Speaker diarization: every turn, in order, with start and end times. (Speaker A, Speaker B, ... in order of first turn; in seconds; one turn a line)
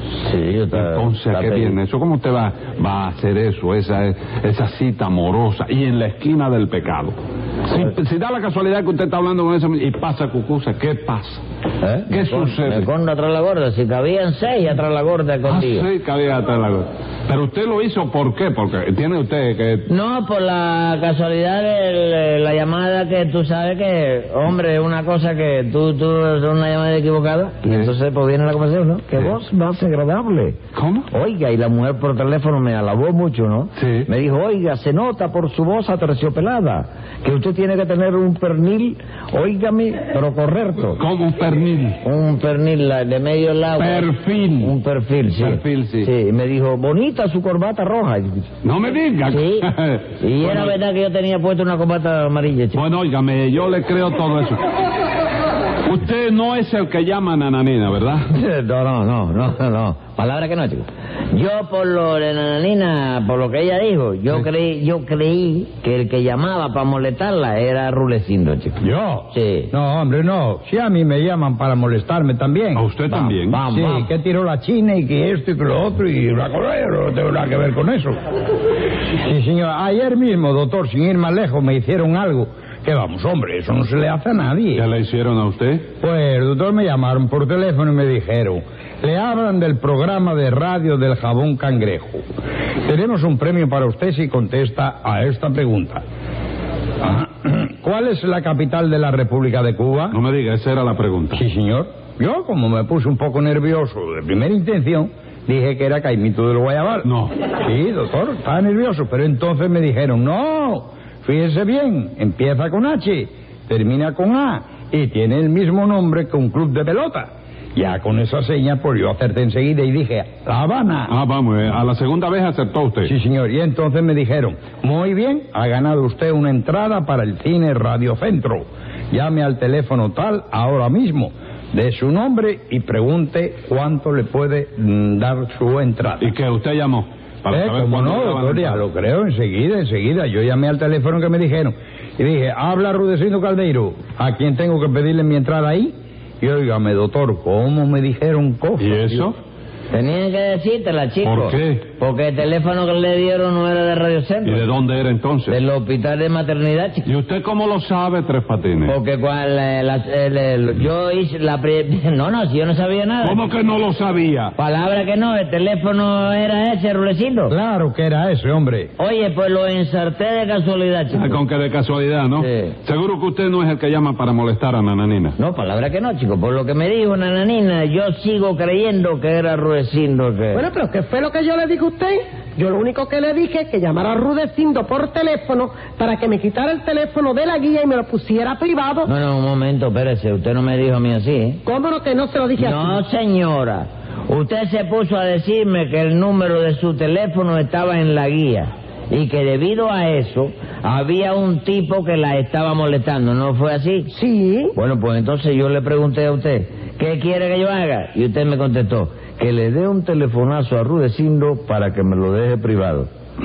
Speaker A: 0.2-1.8
Speaker B: 0.7-11.4
Speaker A: 11.8-15.9
Speaker B: 12.1-12.9
Speaker B: 15.5-19.9
Speaker A: 19.9-30.6
Speaker B: 27.6-27.9
Speaker B: 30.7-31.1
Speaker A: 31.1-41.0
Speaker B: 33.8-34.1
Speaker B: 41.0-42.0
Speaker A: 42.0-48.5
Speaker B: 43.8-44.7
Speaker B: 45.4-46.1
Speaker B: 48.6-50.8
Speaker A: 49.3-49.7
Speaker A: 50.2-52.8
Speaker B: 52.7-54.7
Speaker B: 55.8-58.3
Speaker A: 58.3-68.8
Speaker C: 68.8-73.1
Speaker A: 69.3-69.7
Speaker B: 72.7-73.6
Speaker A: 73.1-74.1
Speaker C: 73.7-78.2
Speaker C: 79.2-84.8
Speaker B: 84.7-85.8
Speaker C: 86.0-92.2
Speaker C: 92.8-96.0
Speaker C: 97.0-100.2
Speaker B: 100.1-101.4
Speaker C: 101.3-121.1
Speaker B: 107.0-107.3
Speaker B: 121.1-123.1
Speaker C: 123.0-136.3
Speaker B: 136.2-138.8
Speaker C: 137.5-149.3
Speaker B: 148.8-149.3
Speaker A: 149.9-154.7
Speaker B: 151.2-151.8
Speaker B: 154.4-155.6
Speaker A: 155.5-157.1
Speaker B: 157.1-159.0
Speaker A: 158.8-163.4
Speaker B: 163.2-164.5
Speaker A: 164.6-167.5
Speaker C: 167.5-168.9
Speaker A: 169.0-171.4
Speaker B: 171.1-175.3
Speaker A: 172.4-172.7
Speaker A: 175.4-180.6
Speaker D: 180.5-189.1
Speaker A: 189.0-191.6
Speaker D: 191.6-193.0
Speaker A: 192.6-204.1
Speaker D: 204.1-204.7
Speaker A: 204.7-213.1